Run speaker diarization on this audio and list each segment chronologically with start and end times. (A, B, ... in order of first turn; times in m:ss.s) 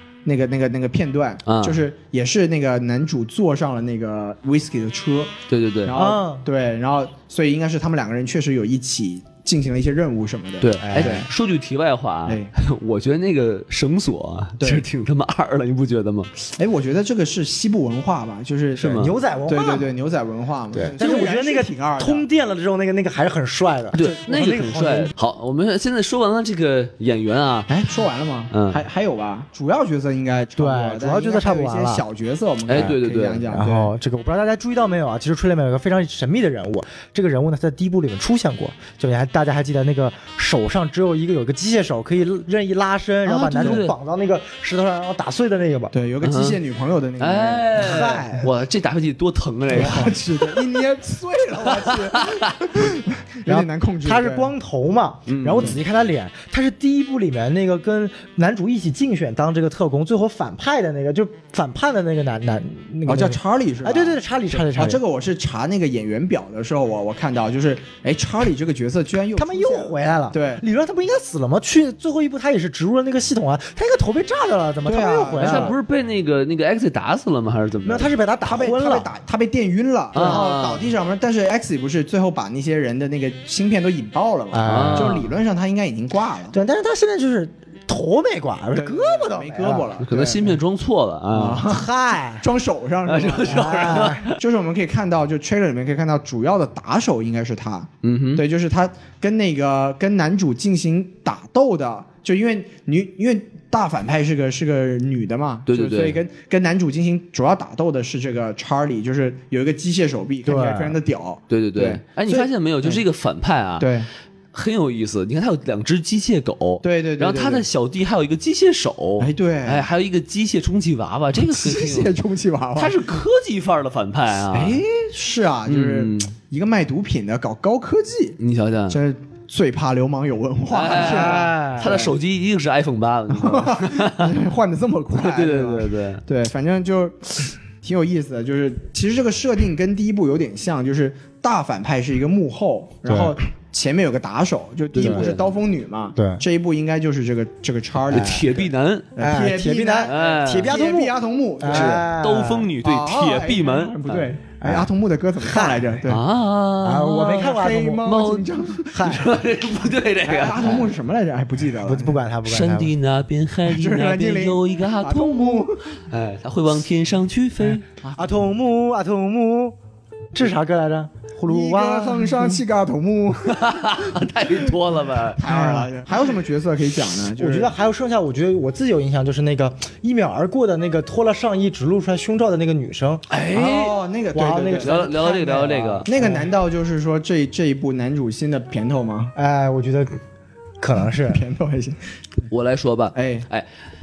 0:00.2-0:05.3 A
0:01.4-0:01.8 B
0:05.5-0:05.9 B
0:05.8-0:11.3 A
0:05.9-0:06.4 C
0:10.6-0:16.3 B
0:10.8-0:11.2 C
0:12.2-0:12.5 A
0:14.6-0:14.8 A
0:16.5-0:22.3 A
0:18.8-0:19.1 B
0:19.0-0:19.9 C
0:20.7-0:25.1 C
0:23.9-0:27.7 B
0:27.7-0:33.9 A
0:28.5-0:28.8 B
0:30.6-0:32.0 C
0:32.7-0:33.4 B
0:33.5-0:45.9 C
0:43.2-0:43.9 B
0:43.6-0:43.8 A
0:45.9-0:48.2 A
0:46.2-0:46.6 B
0:47.2-0:50.2 B
0:47.8-0:48.5 C
0:49.7-0:54.5 A
0:49.8-0:50.1 C
0:51.8-0:52.6 B
0:53.4-1:05.0 C
0:55.3-0:55.8 B
1:03.0-1:10.6 A
1:09.3-1:15.7 C
1:14.8-1:15.7 A
1:15.4-1:18.1 B
1:17.8-1:19.1 C
1:18.4-1:26.6 A
1:20.1-1:20.8 B
1:24.5-1:25.2 C
1:24.6-1:25.3 B
1:26.5-1:29.9 C
1:28.7-1:30.6 A
1:30.0-1:31.6 B
1:31.3-1:53.0 A
1:31.6-1:32.4 C
1:33.1-1:34.4 B
1:33.4-1:34.2 C
1:38.0-1:38.4 B
1:45.7-1:46.2 B
1:50.4-1:51.0 C
1:51.5-1:53.9 B
1:53.8-1:54.1 A
1:54.5-2:02.1 B
1:56.8-1:57.6 A
1:59.2-1:59.8 A
2:01.4-2:03.0 A
2:02.8-2:04.8 B
2:04.5-2:08.4 A
2:05.7-2:06.3 B
2:08.4-2:09.0 B
2:08.9-2:12.1 A
2:10.7-2:14.3 B
2:10.9-2:12.0 C
2:13.3-2:32.0 A
2:15.1-2:16.2 B
2:23.0-2:23.4 C
2:24.9-2:25.5 B
2:25.0-2:25.3 C
2:26.2-2:26.4 C
2:28.1-2:28.5 C
2:28.1-2:29.1 B
2:29.2-2:32.7 C
2:30.1-2:30.7 B
2:31.7-2:34.3 B
2:32.8-2:36.2 A
2:34.6-2:35.9 C
2:36.0-2:40.9 B
2:36.8-2:38.1 C
2:37.2-2:39.2 A
2:38.9-2:39.3 C
2:40.2-2:42.2 A
2:41.8-2:42.9 C
2:42.4-2:47.8 B
2:43.6-2:45.8 A
2:47.8-2:48.2 A
2:48.1-2:49.8 C
2:50.3-2:52.6 C
2:51.5-2:54.2 A
2:53.4-2:55.4 B
2:55.4-2:57.7 A
2:55.4-2:55.9 C
2:57.4-3:03.2 C
3:03.3-3:03.9 B
3:03.5-3:09.3 A
3:04.3-3:06.5 C
3:04.8-3:06.1 B
3:09.3-3:10.2 C
3:10.8-3:11.4 C
3:11.2-3:12.0 A
3:12.5-3:13.6 B
3:13.1-3:13.5 A